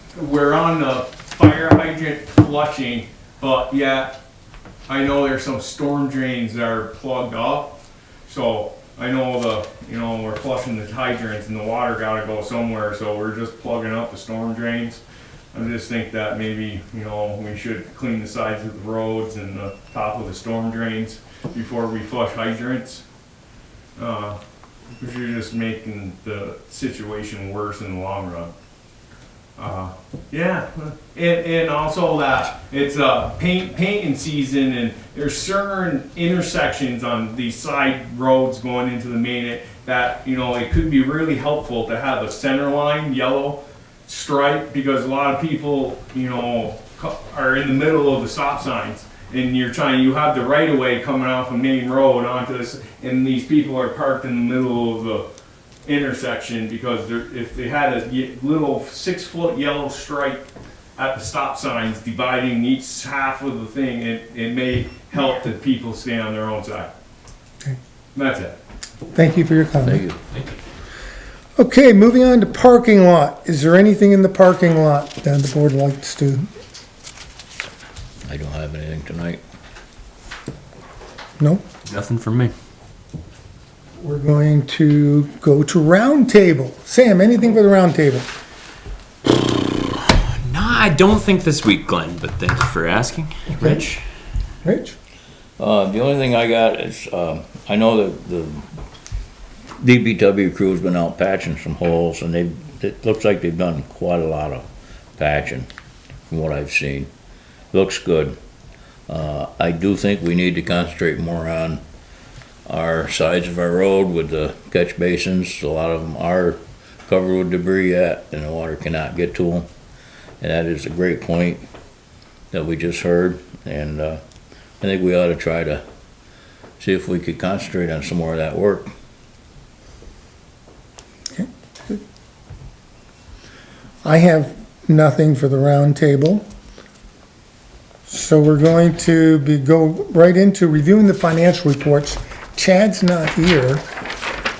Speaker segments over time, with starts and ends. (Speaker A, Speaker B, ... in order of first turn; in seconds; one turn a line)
Speaker A: 0.1-4.2
Speaker A: 4.9-7.7
Speaker A: 8.3-15.0
Speaker A: 15.5-23.0
Speaker A: 24.0-24.4
Speaker A: 25.0-28.5
Speaker A: 29.6-55.3
Speaker A: 55.8-60.4
Speaker A: 61.0-66.9
Speaker A: 68.1-68.6
Speaker B: 69.1-70.0
Speaker C: 69.8-70.2
Speaker B: 71.6-76.5
Speaker C: 78.2-79.4
Speaker B: 81.4-81.6
Speaker D: 81.9-82.5
Speaker B: 84.0-88.3
Speaker D: 90.0-94.0
Speaker B: 94.6-94.9
Speaker C: 95.6-98.6
Speaker C: 99.8-104.6
Speaker C: 105.2-105.7
Speaker C: 106.3-107.1
Speaker C: 107.7-108.3
Speaker C: 109.1-111.8
Speaker C: 112.7-119.7
Speaker C: 120.4-121.6
Speaker C: 122.5-124.2
Speaker C: 124.8-125.8
Speaker C: 126.8-128.9
Speaker B: 131.3-131.9
Speaker B: 134.0-136.4
Speaker B: 138.1-143.8